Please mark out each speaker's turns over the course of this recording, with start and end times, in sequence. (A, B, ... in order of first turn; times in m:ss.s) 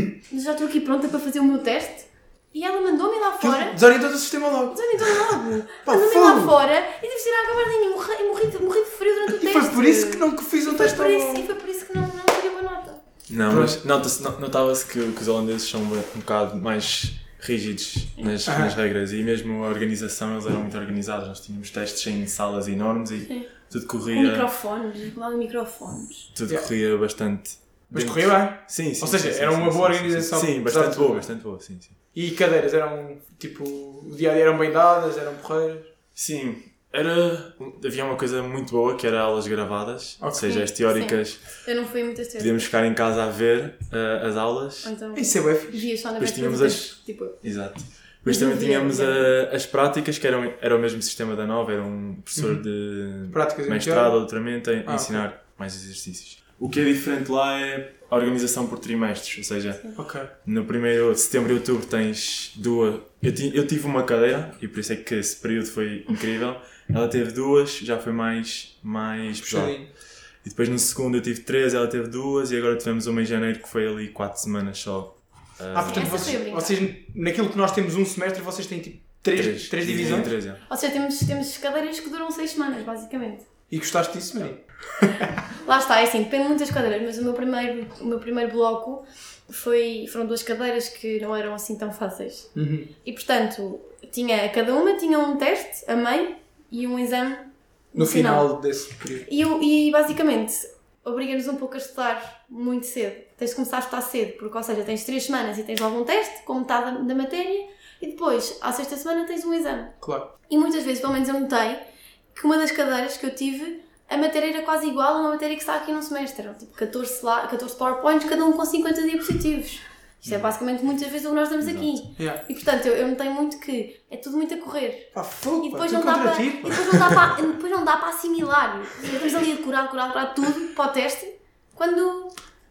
0:00.3-0:03.8 A
0:03.4-0:06.5 B
0:04.7-0:13.0 A
0:09.3-0:11.5 B
0:13.3-0:24.5 C
0:13.5-0:13.8 B
0:18.4-0:18.8 B
0:23.2-0:23.5 A
0:24.1-0:26.3 A
0:26.3-0:31.9 C
0:27.9-0:31.3 B
0:32.1-0:35.9 B
0:36.2-0:41.6 C
0:40.2-0:40.6 B
0:40.4-0:42.7 A
0:42.4-0:44.9 C
0:44.8-0:47.4 A
0:45.1-0:45.9 B
0:46.2-1:09.8 C
0:48.2-0:49.3 A
0:52.4-0:52.6 B
0:53.3-0:55.2 B
1:00.0-1:00.3 B
1:09.4-1:09.9 B
1:10.4-1:16.4 C
1:15.7-1:20.3 B
1:15.9-1:16.8 A
1:19.3-1:20.6 C
1:20.7-1:23.5 A
1:23.7-1:25.3 B
1:25.6-1:38.5 A
1:32.5-1:32.9 B
1:37.9-1:39.3 B
1:39.2-1:50.0 A
1:50.0-1:50.3 B
1:50.5-1:51.8 A
1:52.3-2:12.3 A
2:00.2-2:00.5 C
2:01.6-2:02.0 C
2:05.1-2:07.2 B